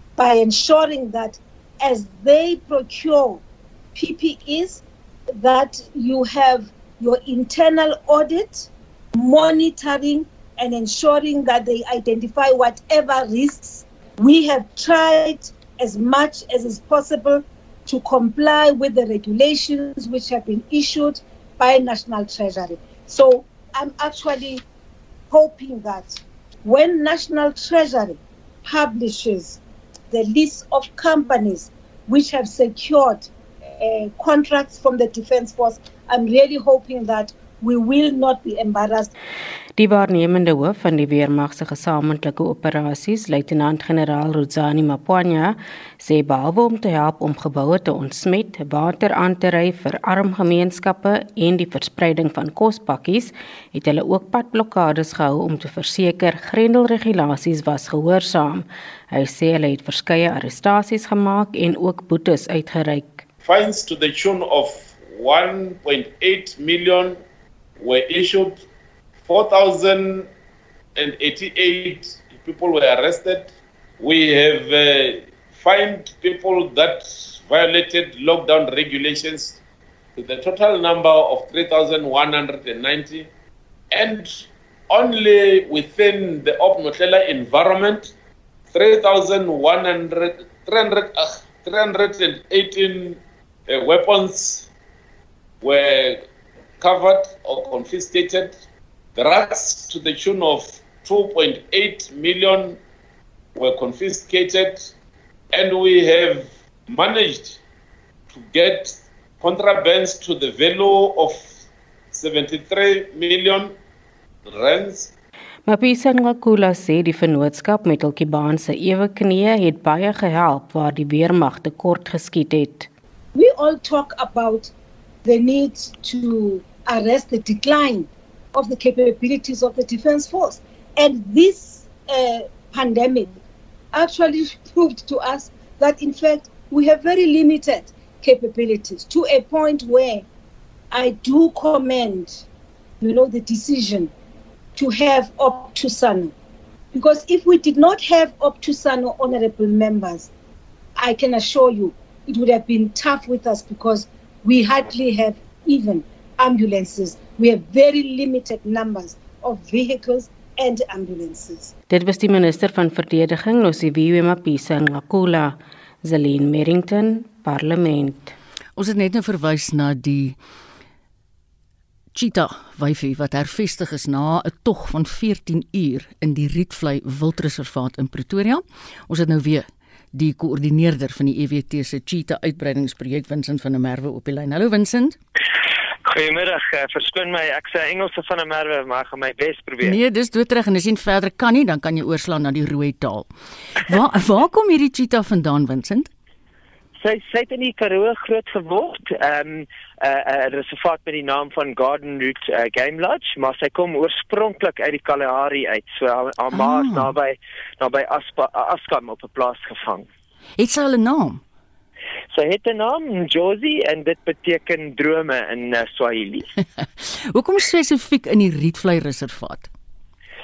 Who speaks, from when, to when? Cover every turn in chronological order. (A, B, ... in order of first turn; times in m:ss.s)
0:00.2-0:03.4 A
0:03.9-0:04.8 A
0:05.3-0:24.6 A
0:25.3-0:29.6 A
0:30.1-0:39.1 A
0:39.8-1:03.2 B
1:03.4-1:07.2 C
1:07.8-1:08.6 C
1:09.2-1:10.3 C
1:11.0-1:19.6 C
1:20.2-1:23.3 C
1:23.9-1:28.1 C
1:28.7-1:34.7 C
1:35.6-1:36.2 C
1:36.8-1:38.6 C
1:39.2-1:42.8 C
1:43.5-1:44.9 C
1:45.5-1:47.6 C
1:48.3-1:51.6 C
1:52.1-1:53.7 C
1:54.4-1:55.1 C
1:55.6-2:02.9 B
2:03.3-2:04.7 A
2:05.2-2:13.4 A
2:13.9-2:20.2 A
2:20.9-2:22.4 A
2:23.0-2:24.1 A
2:24.8-2:26.3 A
2:26.9-2:30.3 A
2:31.0-2:41.7 A
2:41.9-2:48.3 B
2:48.8-2:50.4 D
2:52.1-3:05.2 D
3:06.0-3:10.0 E
3:09.8-3:13.3 D
3:13.8-3:16.1 D
3:17.0-3:30.1 E
3:26.5-3:27.1 D
3:30.6-3:31.4 D
3:32.3-3:36.5 E
3:37.0-3:39.7 D